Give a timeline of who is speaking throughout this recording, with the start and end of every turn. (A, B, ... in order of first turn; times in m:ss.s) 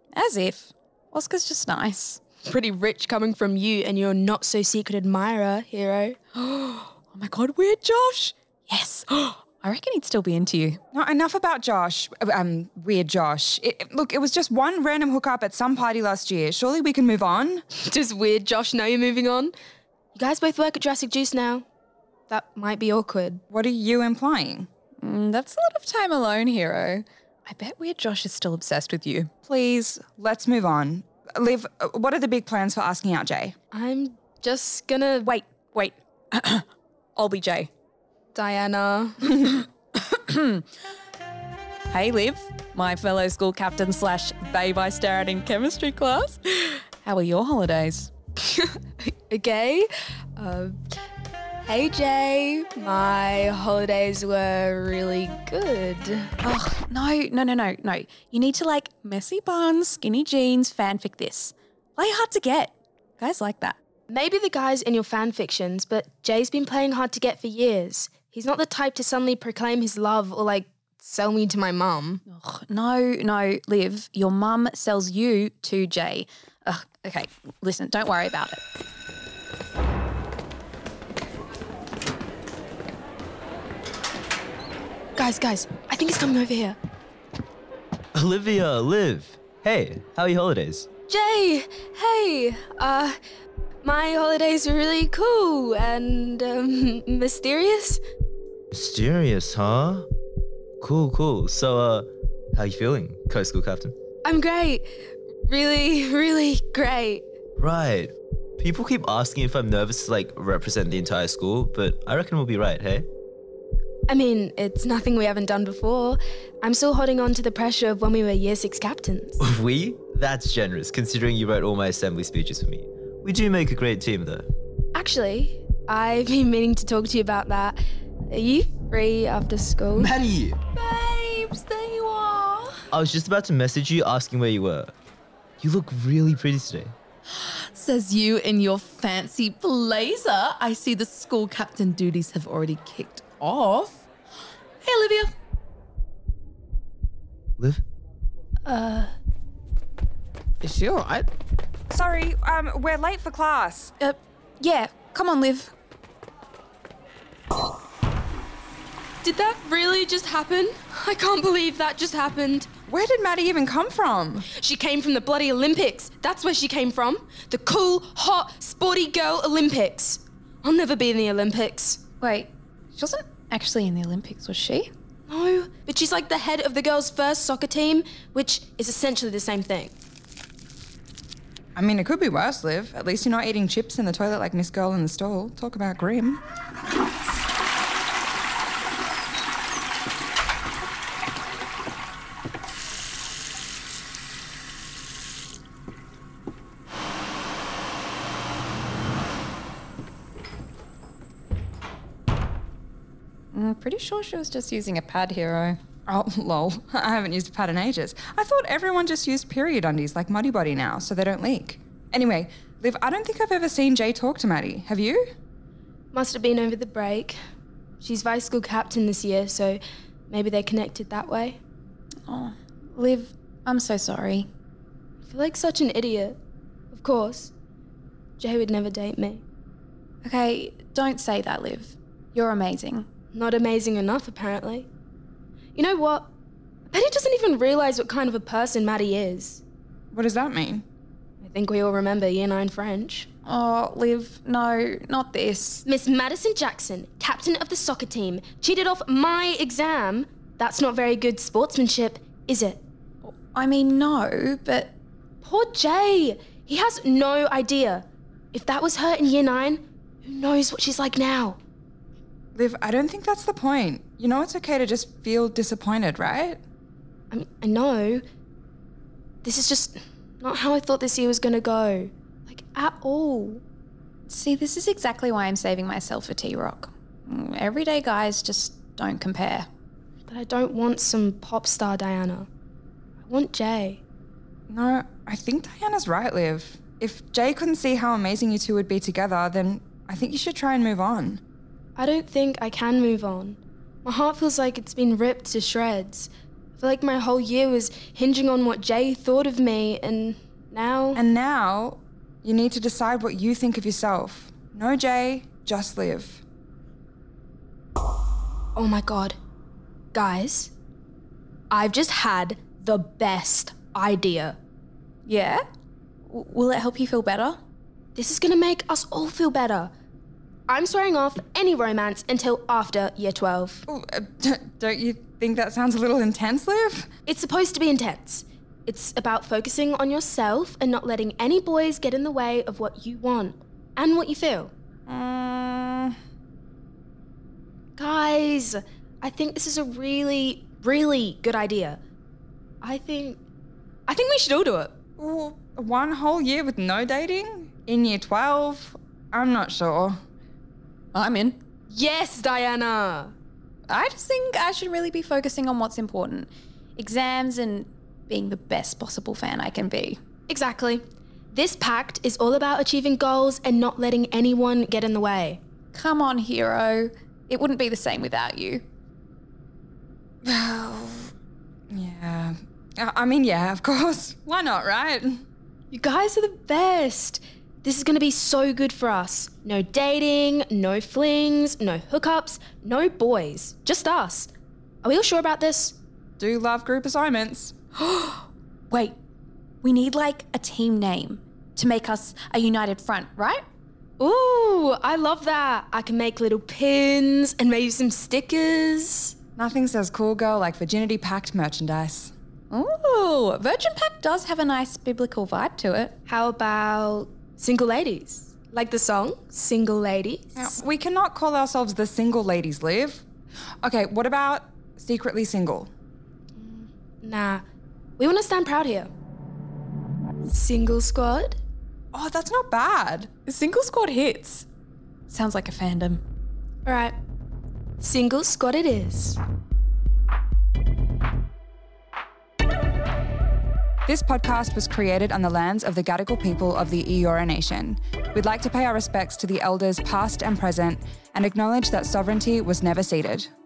0:00.1-0:02.2 A
0:02.4-0:06.2 B
0:06.4-0:10.8 A
0:10.9-0:17.6 C
0:17.8-0:19.5 B
0:20.2-0:21.6 B
0:22.3-0:23.4 B
0:23.5-0:24.7 C
0:25.0-0:29.3 A
0:29.5-0:33.6 C
0:33.7-0:35.4 B
0:35.2-0:37.7 A
0:38.3-0:39.4 B
0:39.4-0:40.6 A
0:41.9-0:48.1 A
0:48.4-0:50.8 B
0:51.6-0:56.3 B
0:56.4-1:03.8 A
1:04.1-1:12.2 B
1:12.3-1:18.6 A
1:25.2-1:26.8 B
1:28.2-1:30.9 D
1:31.1-1:33.2 B
1:33.8-1:38.0 B
1:38.7-1:40.1 D
1:40.8-1:44.0 D
1:44.2-1:44.9 B
1:45.5-1:47.3 B
1:47.6-1:53.1 D
1:54.1-1:59.4 B
1:59.4-2:04.5 D
2:04.9-2:07.8 B
2:08.3-2:10.2 B
2:10.0-2:10.6 D
2:10.8-2:12.8 B
2:12.9-2:14.9 D
2:15.6-2:16.9 D
2:17.3-2:24.0 E
2:24.8-2:25.4 E
2:27.6-2:27.8 D
2:28.7-2:29.1 B
2:30.6-2:31.3 E
2:31.9-2:33.9 C
2:34.0-2:35.7 A
2:39.2-2:42.7 B
2:42.9-2:44.5 C
2:44.5-2:52.0 B
2:52.2-2:54.9 A
2:55.3-2:59.9 B
3:01.8-3:06.4 C
3:23.5-3:25.8 A
3:26.1-3:35.3 C
3:36.1-3:37.4 B
3:38.0-3:41.6 B
3:42.3-3:44.5 A
3:45.2-3:46.4 B
3:46.9-3:47.5 B
3:48.4-3:49.4 B
3:50.2-3:53.1 A
3:53.3-3:54.9 B
3:55.8-3:56.3 B
3:56.9-3:59.6 B
4:00.1-4:00.8 C
4:01.4-4:03.3 B
4:03.5-4:05.8 A
4:05.9-4:12.8 B
4:13.2-4:15.0 A
4:15.4-4:21.6 B
4:22.6-4:26.6 C
4:27.3-4:28.2 B
4:29.4-4:33.6 B
4:34.3-4:39.7 A
4:40.3-4:42.5 B
4:43.2-4:44.0 B
4:44.7-4:51.4 C
4:52.0-5:01.2 B
5:01.2-5:06.4 C
5:08.8-5:09.4 B
5:10.1-5:10.7 B
5:11.7-5:14.6 B
5:15.3-5:15.6 A
5:16.3-5:17.6 A
5:18.2-5:19.9 B
5:20.7-5:23.8 B
5:23.9-5:27.1 C
5:27.3-5:34.7 B
5:35.1-5:36.2 C
5:38.0-5:42.0 B
5:42.8-5:43.4 B
5:44.1-5:45.0 B
5:45.2-5:50.2 C
5:51.1-5:51.6 A
5:51.9-5:53.3 B
5:53.9-6:00.2 A
6:00.5-6:05.6 B
6:05.9-6:08.8 A
6:10.4-6:11.3 C
6:11.9-6:15.4 C
6:15.9-6:24.5 B
6:25.0-6:26.0 B
6:26.4-6:27.7 C
6:28.0-6:29.2 A
6:29.8-6:33.6 A
6:34.2-6:39.4 B
6:39.6-6:42.3 C
6:42.7-6:46.2 A
6:46.3-6:50.8 B
6:50.6-6:53.3 C
6:53.8-6:55.9 C
6:56.6-6:57.6 B
6:58.2-6:59.1 B
7:00.4-7:01.6 B
7:02.1-7:03.3 C
7:03.5-7:04.7 A
7:05.3-7:06.2 A
7:06.9-7:07.1 B
7:08.0-7:09.4 B
7:14.1-7:23.5 C